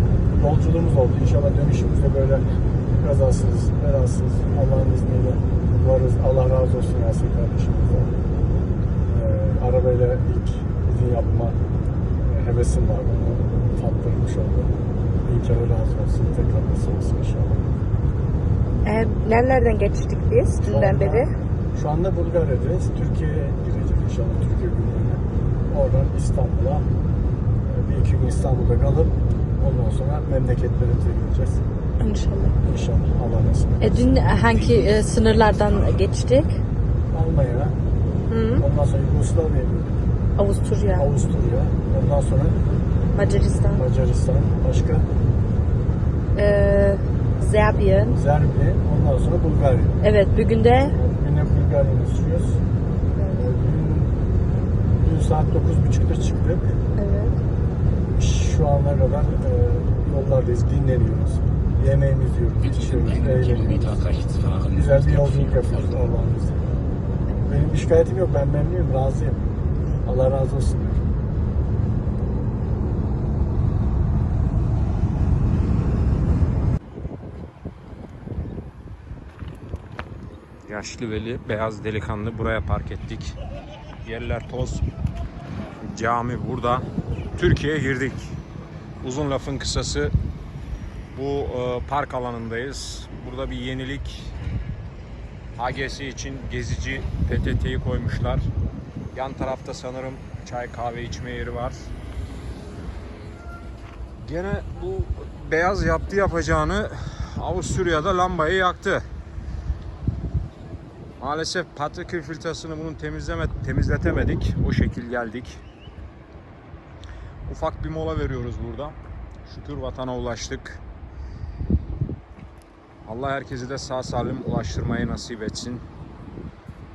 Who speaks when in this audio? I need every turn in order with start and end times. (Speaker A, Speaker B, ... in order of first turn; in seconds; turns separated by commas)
Speaker A: 0.3-8.1, Speaker A: 9.1-11.6, Speaker A: 12.2-17.7, Speaker B: 18.9-21.3, Speaker A: 20.6-26.9, Speaker A: 27.6-31.6, Speaker B: 32.0-32.5, Speaker A: 32.6-34.1, Speaker B: 33.8-36.6, Speaker A: 37.1-37.7, Speaker B: 38.3-38.6, Speaker A: 38.6-39.9, Speaker B: 40.4-41.1, Speaker A: 41.0-42.6, Speaker B: 43.2-43.8, Speaker A: 43.7-45.1, Speaker B: 46.4-48.2, Speaker A: 48.1-50.0, Speaker B: 50.0-50.9, Speaker A: 50.9-52.6, Speaker A: 53.3-54.1, Speaker A: 55.0-56.8, Speaker B: 57.0-57.4, Speaker A: 58.1-64.1, Speaker A: 64.6-66.7, Speaker A: 67.4-69.4, Speaker A: 70.0-71.1, Speaker C: 80.6-83.4, Speaker C: 84.0-84.8, Speaker C: 85.8-88.3, Speaker C: 89.0-90.1, Speaker C: 91.1-94.3, Speaker C: 95.5-98.5, Speaker C: 99.1-101.9, Speaker C: 104.2-109.0, Speaker C: 111.2-115.6, Speaker C: 117.5-120.8, Speaker C: 123.0-125.8